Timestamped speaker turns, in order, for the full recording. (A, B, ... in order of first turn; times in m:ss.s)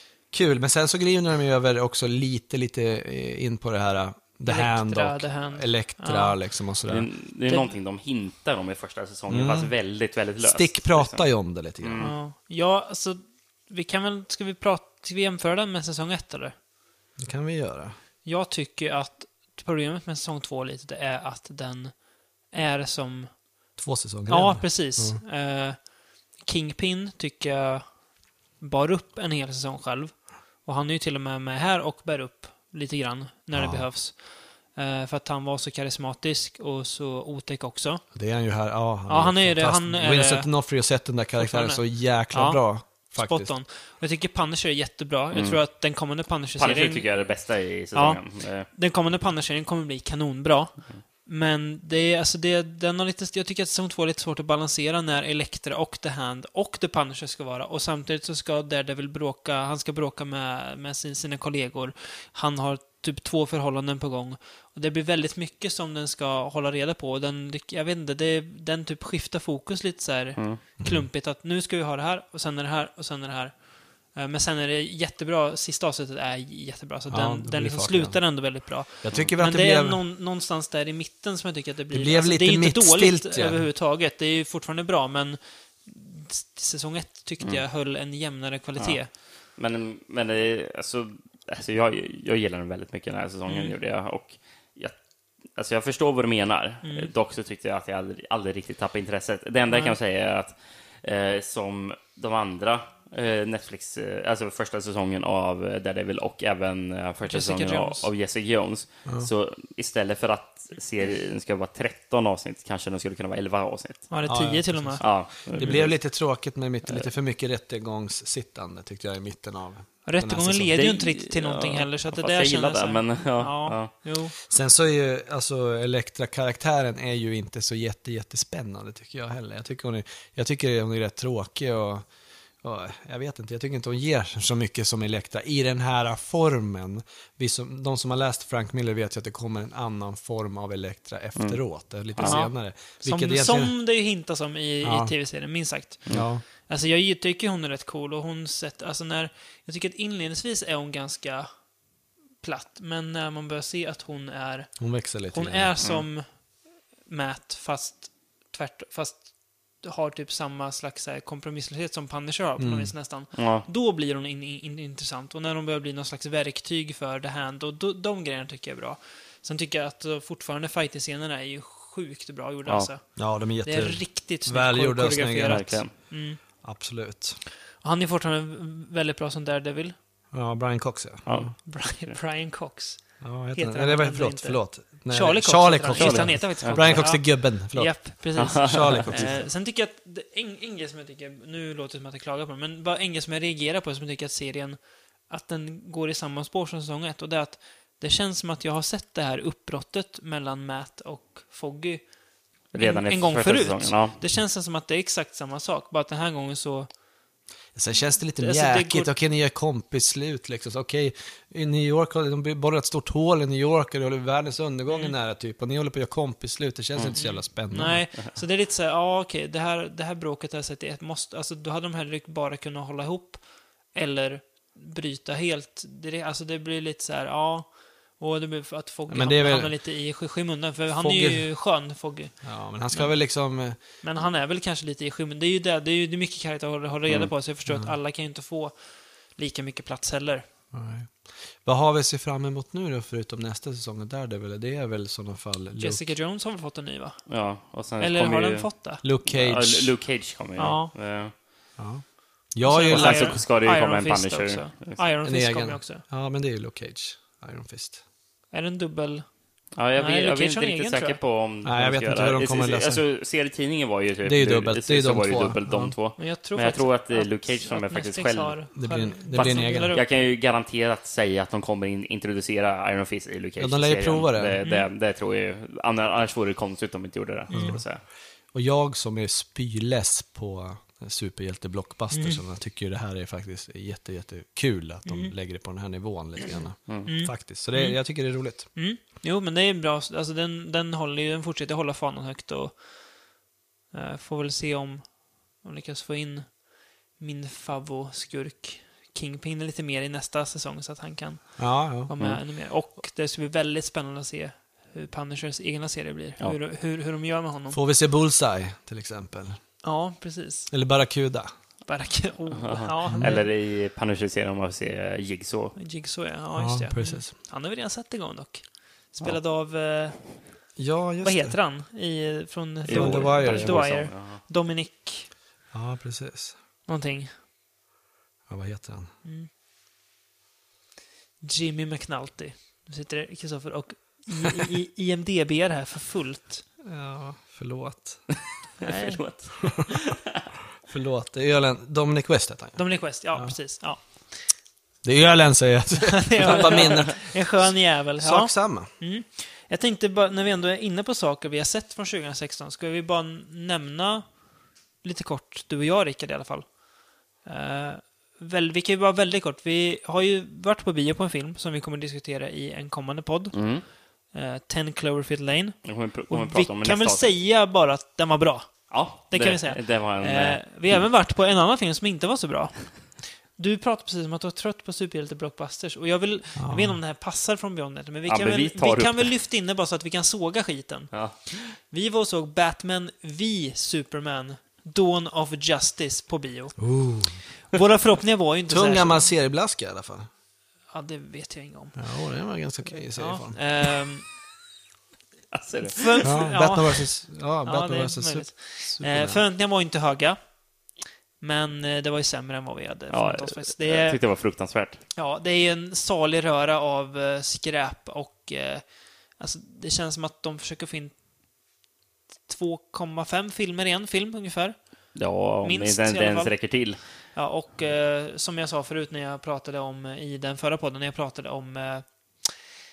0:00.3-0:07.1 A
0:04.4-0:06.4 B
0:06.9-0:11.2 C
0:09.3-0:09.7 A
0:10.4-0:12.1 A
0:11.8-0:12.1 C
0:12.0-0:16.5 B
0:17.2-0:17.9 A
0:18.2-0:21.9 B
0:22.5-0:23.4 B
0:23.8-0:25.2 A
0:24.3-0:27.8 B
0:28.6-0:38.0 B
0:33.5-0:33.8 A
0:38.1-0:43.5 A
0:39.1-0:40.5 B
0:41.4-0:47.1 B
0:45.3-0:45.6 C
0:46.6-0:48.7 C
0:47.9-1:13.6 B
1:10.4-1:10.6 C
1:10.8-1:11.1 A
1:14.1-1:29.1 B
1:17.1-1:18.2 A
1:19.0-1:20.0 A
1:21.9-1:23.6 A
1:29.6-1:35.0 C
1:33.5-1:33.8 B
1:35.5-1:54.1 C
1:36.8-1:37.1 B
1:39.7-1:40.0 B
1:47.2-1:48.1 B
1:54.1-1:55.0 B
1:54.3-2:00.7 A
1:55.0-1:56.0 C
2:00.0-2:04.3 B
2:00.7-2:03.9 C
2:04.4-2:12.1 A
2:12.6-2:23.7 A
2:22.1-2:22.4 C
2:22.2-2:31.5 B
2:24.8-2:25.1 A
2:26.1-2:26.4 A
2:32.4-2:34.7 B
2:34.8-2:35.7 A
2:35.3-2:36.3 B
2:37.0-2:53.1 B
2:42.6-2:42.9 A
2:43.3-2:43.6 C
2:53.2-2:55.9 A
2:53.6-2:56.4 B
2:55.4-2:55.9 C
2:56.6-2:57.4 A
2:57.8-2:59.9 B
3:00.3-3:01.4 A
3:01.2-3:02.1 C
3:01.6-3:22.1 B
3:03.2-3:09.4 A
3:05.9-3:06.9 C
3:08.4-3:09.1 C
3:22.7-3:24.2 C
3:22.8-3:26.9 B
3:27.7-3:38.0 A
3:28.4-3:29.1 B
3:37.0-3:37.2 C
3:37.2-3:43.4 B
3:43.9-3:52.3 B
3:49.1-3:49.7 A
3:50.9-3:51.5 A
3:52.4-3:53.8 A
3:54.0-3:58.7 B
3:57.7-3:57.9 A
3:59.3-4:00.4 B
4:00.7-4:06.1 A
4:05.8-4:07.2 B
4:07.3-4:08.7 C
4:08.0-4:09.0 B
4:09.0-4:09.9 A
4:09.2-4:11.3 C
4:10.6-4:10.9 B
4:11.8-4:13.4 A
4:12.6-4:16.0 B
4:12.9-4:15.0 C
4:15.2-4:18.0 A
4:18.5-4:19.2 B
4:19.8-4:28.6 C
4:20.0-4:21.2 B
4:21.6-4:23.0 A
4:24.2-4:25.9 A
4:26.2-4:30.1 B
4:28.7-4:30.0 A
4:29.3-4:38.0 C
4:33.6-4:34.6 A
4:37.5-4:37.8 B
4:37.5-4:37.8 A
4:38.5-4:48.7 A
4:42.1-4:42.4 B
4:45.0-4:45.3 B
4:47.0-4:52.8 B
4:53.9-4:56.6 B
4:57.2-5:07.8 B
5:01.6-5:02.1 A
5:07.7-5:09.6 A
5:09.8-5:10.7 B
5:10.7-5:11.5 A
5:11.9-5:13.5 B
5:12.6-5:15.7 C
5:13.1-5:13.4 A
5:15.8-5:20.3 B
5:16.6-5:17.3 A
5:20.8-5:21.6 A
5:21.2-5:25.3 B
5:22.8-5:24.4 C
5:22.9-5:23.8 A
5:25.7-5:26.5 A
5:26.9-5:27.3 B
5:28.5-5:29.1 A
5:29.2-5:29.5 B
5:31.4-5:36.6 B
5:36.8-5:38.2 A
5:38.8-5:40.4 C
5:38.8-5:39.2 B
5:40.8-5:43.5 A
5:42.8-5:44.4 B
5:45.0-5:48.9 A
5:46.0-5:54.3 B
5:55.0-5:56.7 B
5:57.4-6:03.6 B
6:03.5-6:03.8 C
6:04.3-6:26.9 B
6:05.8-6:07.3 C
6:08.9-6:11.0 C
6:16.6-6:17.0 A
6:18.3-6:19.3 C
6:21.1-6:21.7 C
6:26.8-6:27.4 A
6:27.7-6:29.3 B
6:28.7-6:30.3 A
6:30.9-6:32.0 B
6:32.0-6:33.6 A
6:33.1-6:34.3 B
6:35.5-6:36.3 C
6:35.9-6:37.1 B
6:36.2-6:39.4 A
6:37.6-6:40.4 B
6:41.4-6:44.2 B
6:43.1-6:45.0 C
6:45.1-6:48.8 B
6:49.4-6:51.2 B
6:52.5-6:54.8 B
6:55.1-6:57.0 C
6:55.6-6:56.6 B
6:57.3-7:02.5 B